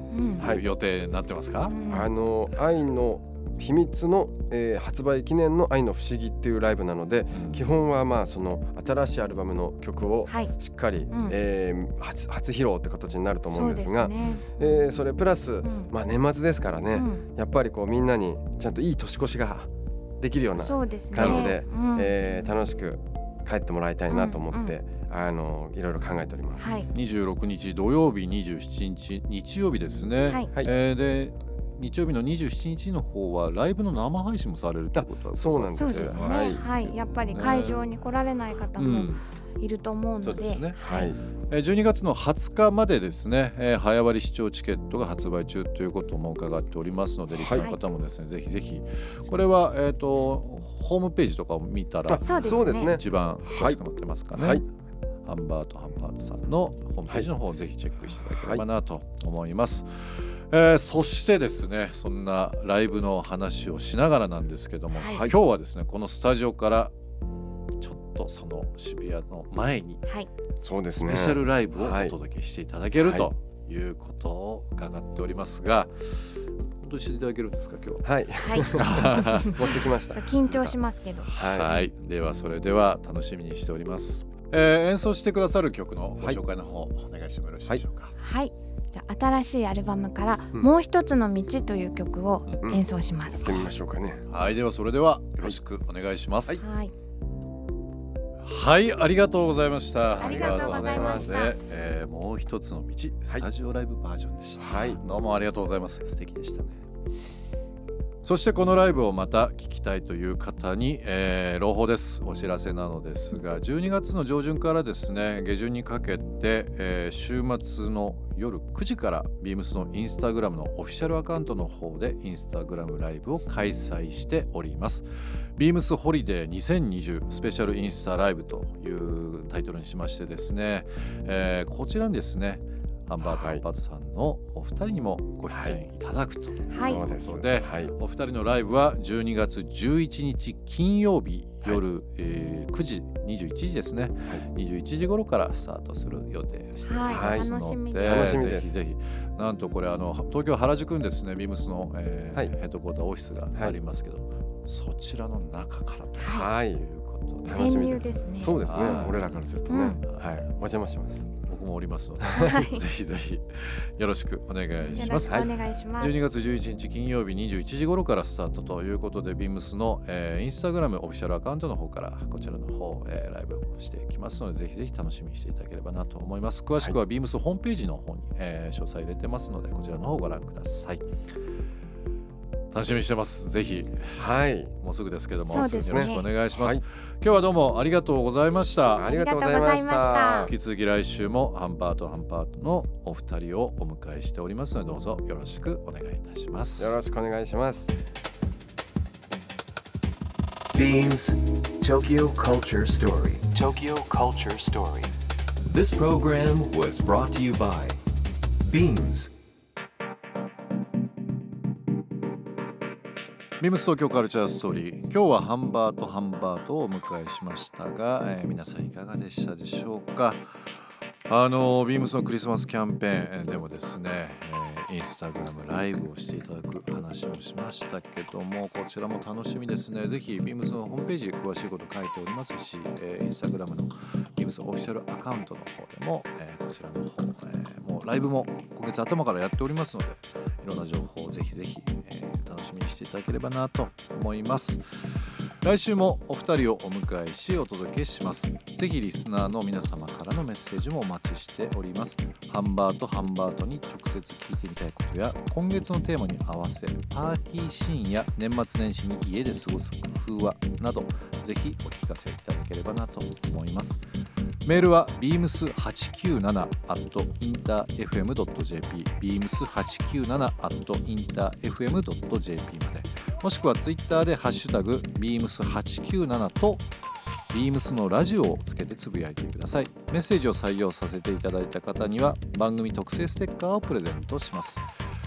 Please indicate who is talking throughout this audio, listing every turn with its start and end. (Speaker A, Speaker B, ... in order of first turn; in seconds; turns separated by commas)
Speaker A: 0.1-0.5, Speaker B: 0.3-1.7, Speaker C: 0.4-0.6, Speaker A: 1.7-2.1, Speaker C: 1.9-19.7, Speaker B: 7.3-7.6, Speaker A: 10.3-10.5, Speaker A: 11.1-11.3, Speaker A: 13.4-14.5, Speaker B: 14.2-14.4, Speaker A: 15.6-15.9, Speaker A: 16.9-17.2, Speaker C: 20.2-26.7, Speaker A: 20.6-22.1, Speaker B: 21.1-21.6, Speaker A: 24.1-24.7, Speaker A: 26.6-26.9, Speaker B: 26.9-37.9, Speaker C: 34.9-36.6, Speaker A: 35.7-41.1, Speaker B: 38.8-39.2, Speaker B: 40.2-40.8, Speaker C: 40.8-41.2, Speaker B: 41.5-54.6, Speaker C: 47.4-47.6, Speaker A: 47.5-47.8, Speaker C: 52.1-53.8, Speaker A: 52.2-53.0, Speaker C: 54.4-54.6, Speaker B: 55.2-66.9, Speaker C: 58.4-58.6, Speaker A: 65.0-65.2, Speaker C: 65.0-65.3, Speaker B: 67.8-70.0, Speaker C: 70.6-72.1, Speaker B: 71.0-78.0, Speaker C: 73.0-73.3, Speaker C: 78.0-80.4, Speaker A: 78.4-79.5, Speaker B: 78.7-79.9, Speaker A: 80.1-81.8, Speaker B: 80.5-88.1, Speaker C: 81.4-81.7, Speaker A: 88.2-93.7, Speaker C: 92.6-94.2, Speaker B: 94.3-96.6, Speaker A: 96.6-96.9, Speaker B: 98.4-106.8, Speaker A: 100.2-101.7, Speaker C: 100.2-101.5, Speaker C: 104.6-105.0, Speaker B: 108.2-158.0, Speaker C: 133.3-133.6, Speaker C: 135.5-135.8, Speaker A: 136.7-137.0, Speaker C: 136.8-137.9, Speaker A: 146.8-148.4, Speaker C: 147.1-148.8, Speaker A: 156.2-156.5, Speaker C: 156.3-156.8, Speaker C: 157.4-161.3, Speaker A: 157.4-158.6, Speaker B: 158.5-159.4, Speaker A: 159.7-160.0, Speaker B: 161.4-165.4, Speaker A: 162.3-162.8, Speaker C: 164.9-165.5, Speaker A: 164.9-166.2, Speaker B: 166.0-181.1, Speaker B: 182.7-189.1, Speaker C: 184.2-184.7, Speaker A: 185.5-186.3, Speaker C: 185.8-186.8, Speaker C: 188.9-190.5, Speaker A: 189.0-190.5, Speaker B: 190.5-196.9, Speaker C: 196.8-197.9, Speaker D: 200.7-205.1, Speaker D: 205.7-208.0, Speaker D: 208.7-209.3, Speaker B: 213.6-220.4, Speaker B: 221.3-264.0, Speaker B: 264.6-276.9, Speaker B: 277.5-284.8